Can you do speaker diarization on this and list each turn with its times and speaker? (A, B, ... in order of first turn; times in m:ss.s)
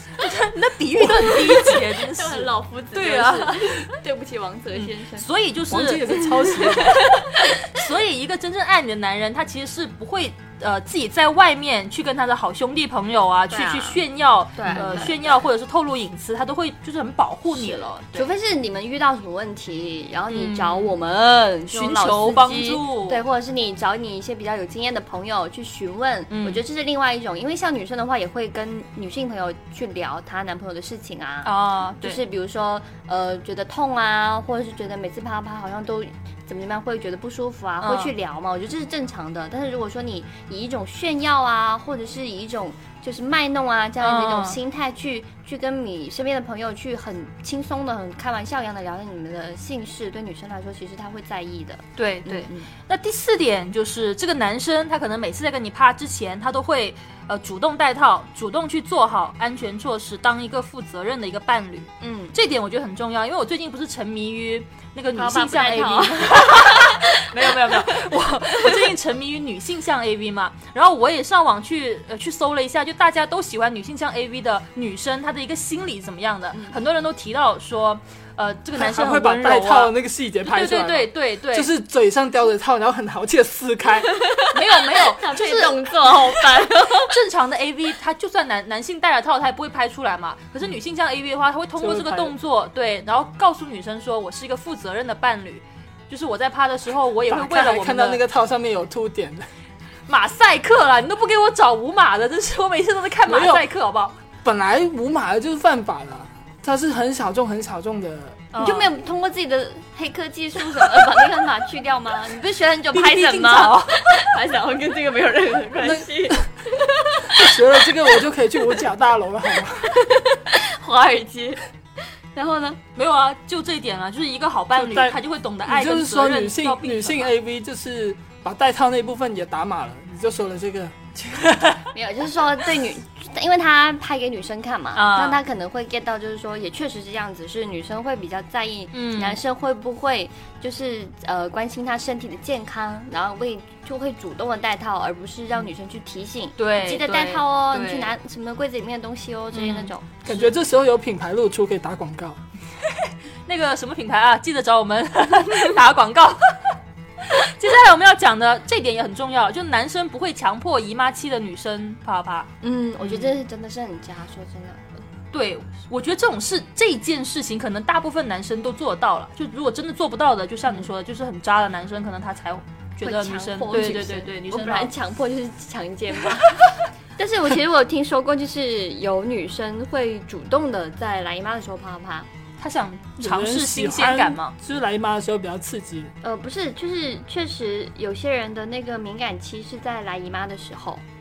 0:00.2-0:03.9 A
0:01.0-0:01.5 B
0:02.1-0:05.2 C
0:04.7-0:06.2 A
0:05.7-0:07.0 B
0:06.4-0:07.6 C
0:07.2-0:18.3 A
0:13.5-0:14.0 C
0:14.6-0:15.4 C
0:14.7-0:15.0 B
0:17.5-0:52.7 C
0:20.3-0:21.0 A
0:21.7-0:23.2 A
0:26.3-0:26.6 A
0:31.4-0:32.2 A
0:37.8-0:38.1 A
0:44.0-0:44.6 A
0:52.0-1:19.9 A
1:02.0-1:02.3 C
1:05.1-1:08.8 C
1:16.5-1:16.8 C
1:18.8-1:24.1 B
1:20.4-1:21.7 A
1:24.1-1:27.1 C
1:24.5-1:38.2 A
1:31.8-1:32.3 B
1:37.3-1:39.5 B
1:40.1-1:44.2 A
1:43.2-1:43.6 B
1:44.4-1:48.5 B
1:48.5-1:48.9 A
1:48.6-1:57.6 C
1:52.9-1:54.0 A
1:55.8-1:56.4 B
1:57.3-1:59.9 B
1:59.8-2:01.6 C
2:02.3-2:02.8 C
2:03.0-2:07.3 A
2:04.7-2:11.7 B
2:11.9-2:30.4 C
2:14.9-2:15.4 A
2:18.9-2:19.4 A
2:26.6-2:28.1 A
2:29.5-2:29.9 A
2:30.2-2:32.4 B
2:32.9-2:43.4 A
2:42.6-2:44.8 C
2:45.3-2:54.9 A
2:53.0-3:02.3 C
3:02.6-3:04.5 A
3:03.2-3:06.1 B
3:06.2-3:11.0 C